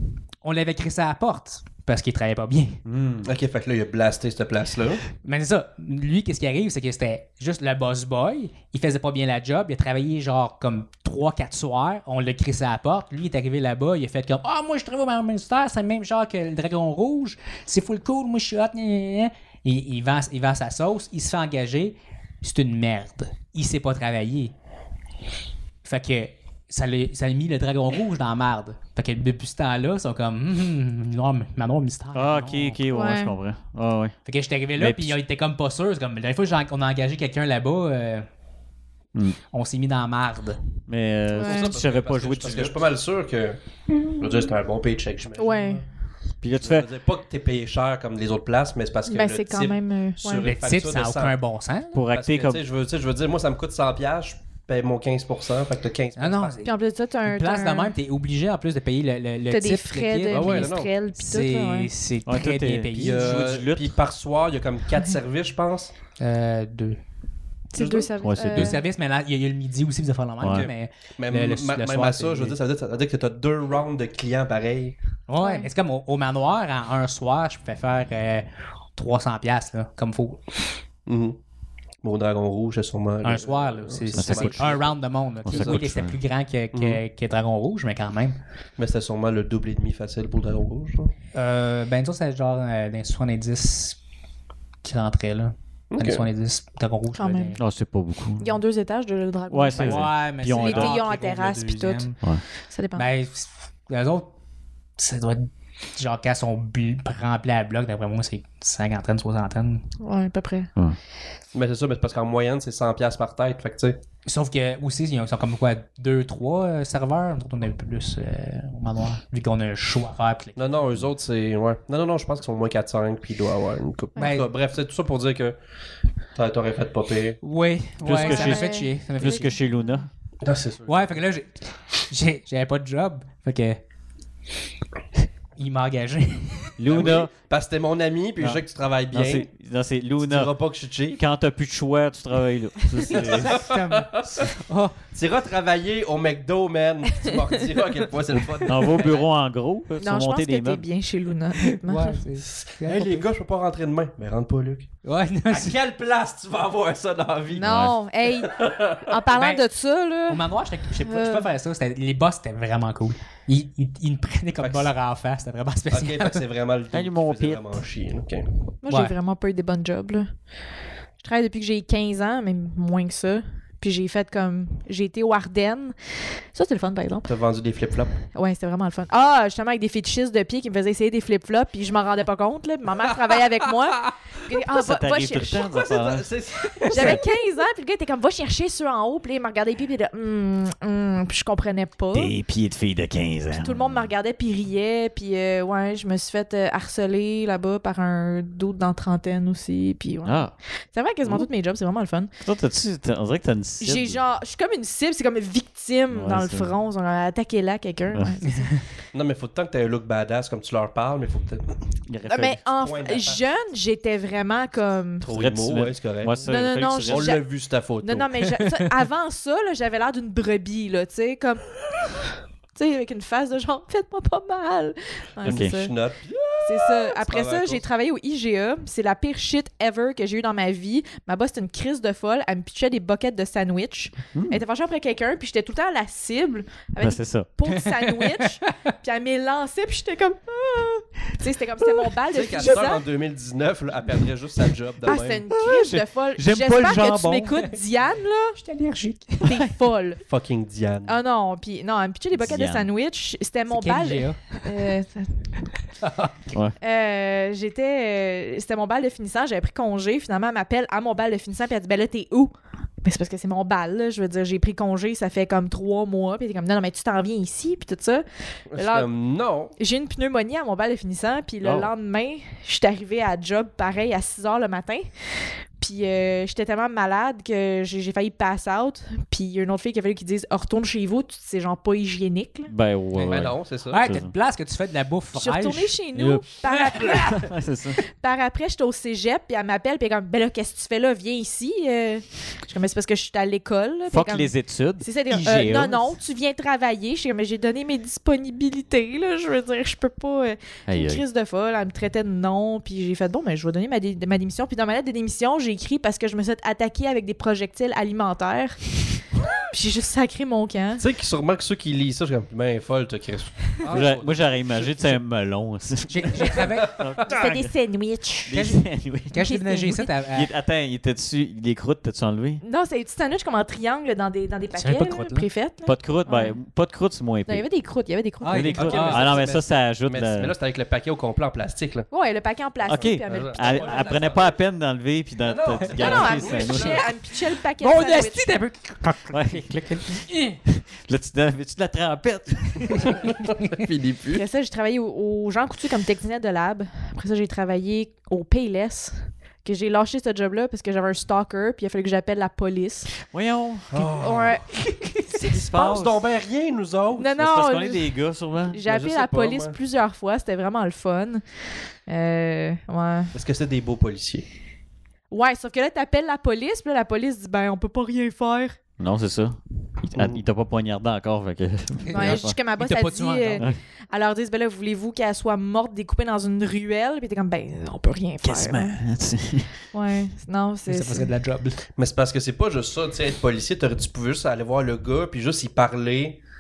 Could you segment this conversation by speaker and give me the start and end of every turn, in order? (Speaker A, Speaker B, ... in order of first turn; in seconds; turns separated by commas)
Speaker A: 0.4-2.8, Speaker B: 2.9-3.3, Speaker C: 3.2-5.0, Speaker A: 5.2-24.5, Speaker A: 25.8-32.8, Speaker B: 32.1-34.2, Speaker D: 32.9-33.3, Speaker A: 34.3-38.3, Speaker B: 34.8-35.2, Speaker A: 39.5-40.6, Speaker B: 40.9-42.8, Speaker D: 41.4-41.7, Speaker C: 41.4-43.6, Speaker D: 43.9-44.5, Speaker C: 44.2-45.9, Speaker D: 45.4-45.8, Speaker B: 46.4-46.9, Speaker C: 46.6-51.4, Speaker D: 49.1-50.5, Speaker A: 50.4-52.0, Speaker B: 51.9-52.6, Speaker C: 52.1-56.6, Speaker A: 56.2-56.7, Speaker D: 56.6-57.9, Speaker A: 57.3-63.5, Speaker D: 59.5-61.9, Speaker C: 60.3-60.9, Speaker B: 62.2-64.0, Speaker C: 63.0-65.9, Speaker A: 66.2-67.0, Speaker D: 67.7-68.8, Speaker C: 67.8-68.1, Speaker B: 68.2-68.8, Speaker A: 68.5-72.6, Speaker B: 70.4-70.7, Speaker C: 70.5-75.0, Speaker A: 75.3-80.4, Speaker D: 75.4-75.7, Speaker C: 81.1-81.4, Speaker C: 82.0-85.8, Speaker A: 83.2-88.4, Speaker B: 84.1-84.8, Speaker B: 85.4-86.2, Speaker C: 86.7-87.0, Speaker C: 88.8-91.1, Speaker A: 91.3-94.0, Speaker A: 94.8-97.6, Speaker C: 95.9-96.3, Speaker D: 97.1-97.6, Speaker B: 97.6-98.5, Speaker D: 98.4-103.1, Speaker B: 99.5-101.0, Speaker A: 99.8-102.2, Speaker A: 103.0-104.3, Speaker A: 105.0-109.9, Speaker D: 110.0-110.7, Speaker C: 111.5-114.0, Speaker A: 114.2-120.7, Speaker C: 120.6-125.6, Speaker A: 124.2-124.5, Speaker C: 126.3-127.4, Speaker A: 127.4-129.5, Speaker B: 128.0-130.1, Speaker D: 128.1-129.6, Speaker C: 130.4-131.2, Speaker A: 130.9-133.8, Speaker A: 135.6-136.8, Speaker B: 136.8-137.3, Speaker C: 136.9-139.5, Speaker B: 138.4-140.5, Speaker C: 140.2-141.2, Speaker B: 141.1-143.6, Speaker C: 143.1-144.5, Speaker A: 143.1-145.0, Speaker C: 145.1-149.2, Speaker B: 148.7-150.8, Speaker D: 150.0-152.2, Speaker A: 151.8-153.1, Speaker C: 152.5-154.9, Speaker A: 155.1-155.8, Speaker C: 155.5-157.7, Speaker D: 157.6-160.4, Speaker B: 157.6-158.0, Speaker C: 158.4-159.2, Speaker A: 159.3-159.6, Speaker A: 160.3-166.4, Speaker D: 161.0-161.5, Speaker C: 164.6-164.9, Speaker C: 165.9-168.5, Speaker B: 166.9-167.8, Speaker D: 168.8-170.4, Speaker A: 168.9-169.1, Speaker D: 171.2-177.3, Speaker C: 177.3-178.2, Speaker D: 178.3-185.7, Speaker B: 184.7-186.3, Speaker C: 185.6-187.2, Speaker D: 186.9-192.3, Speaker B: 186.9-187.2, Speaker B: 192.1-194.1, Speaker D: 193.5-202.3, Speaker B: 200.2-200.5, Speaker B: 202.4-204.2, Speaker D: 203.8-208.9, Speaker B: 206.1-206.7, Speaker A: 208.4-208.7, Speaker C: 209.1-211.7, Speaker B: 212.1-212.6, Speaker D: 212.3-215.3, Speaker C: 212.8-213.4, Speaker C: 215.2-218.3, Speaker B: 215.3-217.3, Speaker D: 216.4-221.9, Speaker D: 222.8-225.9, Speaker C: 225.4-227.8, Speaker B: 225.4-225.8, Speaker D: 226.6-243.0, Speaker B: 234.3-234.6, Speaker B: 237.0-237.5, Speaker C: 242.3-245.4, Speaker D: 245.0-248.6, Speaker B: 245.5-247.6, Speaker A: 248.6-249.6, Speaker D: 249.4-250.2, Speaker C: 250.3-251.2, Speaker D: 251.1-255.6, Speaker B: 252.3-252.9, Speaker A: 253.7-254.8, Speaker A: 256.0-256.5, Speaker D: 256.8-269.1, Speaker C: 268.7-269.7, Speaker D: 269.8-282.7, Speaker B: 271.6-271.9, Speaker B: 282.7-284.3, Speaker A: 283.2-286.0, Speaker C: 283.3-284.1, Speaker D: 285.3-287.5, Speaker B: 286.1-286.5, Speaker A: 286.6-287.5, Speaker B: 287.0-288.0, Speaker D: 288.1-311.1, Speaker B: 294.1-296.1, Speaker B: 300.9-301.2, Speaker C: 311.0-315.1, Speaker B: 313.9-317.7, Speaker A: 316.1-317.1, Speaker D: 317.3-318.6, Speaker B: 318.4-319.4, Speaker A: 318.5-320.5, Speaker D: 319.4-320.1, Speaker B: 320.3-322.6, Speaker D: 322.6-326.6, Speaker A: 324.7-325.5, Speaker B: 325.9-327.7, Speaker D: 327.5-329.2, Speaker A: 328.4-329.4, Speaker B: 328.4-330.5, Speaker C: 328.8-332.1, Speaker D: 332.1-334.1, Speaker B: 332.9-337.0, Speaker C: 333.2-334.4, Speaker A: 333.6-334.4, Speaker C: 335.5-337.1, Speaker A: 335.7-337.1, Speaker D: 335.9-338.6, Speaker A: 337.8-340.6, Speaker B: 339.3-339.8, Speaker B: 340.7-343.1, Speaker C: 343.7-344.4, Speaker D: 344.3-353.2, Speaker B: 353.3-354.1, Speaker C: 353.9-354.6, Speaker D: 354.0-355.7, Speaker C: 355.5-357.4, Speaker B: 355.5-356.2, Speaker D: 357.2-363.3, Speaker B: 357.4-358.8, Speaker C: 358.9-359.8, Speaker C: 363.3-364.4, Speaker D: 365.3-368.8, Speaker B: 369.0-372.6, Speaker C: 370.1-370.4, Speaker A: 372.1-373.7, Speaker D: 372.1-379.0, Speaker B: 378.4-379.7, Speaker D: 379.9-381.3, Speaker A: 380.9-381.8, Speaker C: 382.0-386.4